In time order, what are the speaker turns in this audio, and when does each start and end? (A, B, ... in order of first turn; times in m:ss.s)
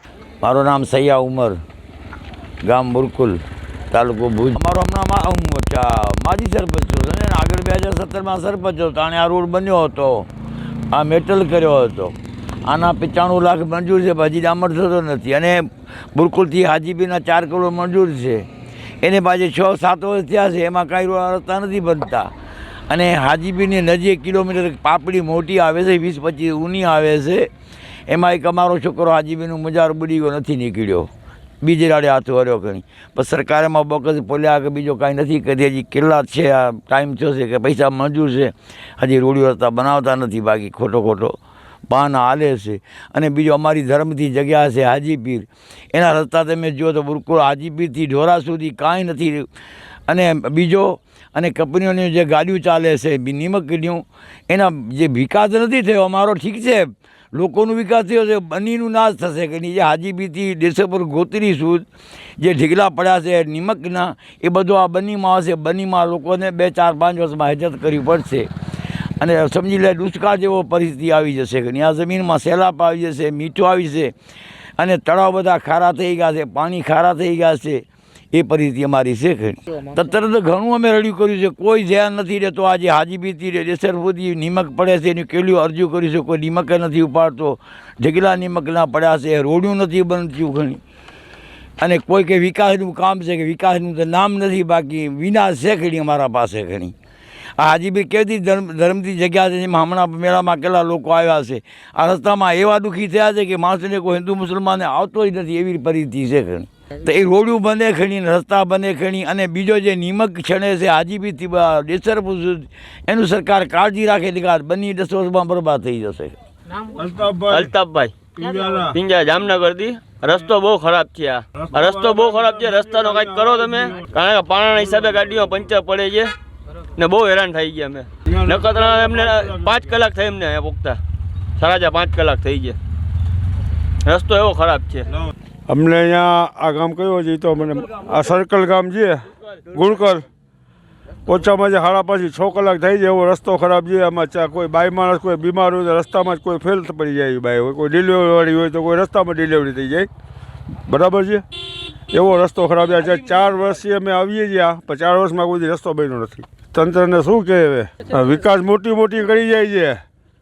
0:00.4-0:01.6 A
0:02.6-0:10.3 A
0:10.9-0:12.2 A
0:12.6-0:18.5 A
0:19.0-0:22.3 A
0:22.9-0:27.5 A
0:28.1-0:31.1 A
0:31.6-0:41.4 A
0:41.9-0:49.5 A
0:50.1-1:01.9 A
1:02.4-1:08.5 A
1:09.2-1:14.1 A
1:14.8-1:30.8 A
1:31.8-1:36.9 A
1:37.6-1:56.3 A
1:56.9-1:57.7 B
1:57.5-1:58.2 C
1:58.4-1:59.0 B
1:58.9-2:06.3 C
2:01.6-2:04.0 B
2:06.9-2:11.0 C
2:11.6-2:12.8 C
2:14.0-2:15.1 C
2:15.7-2:20.2 B
2:21.2-2:30.1 B
2:30.8-2:31.4 B
2:32.1-2:40.0 B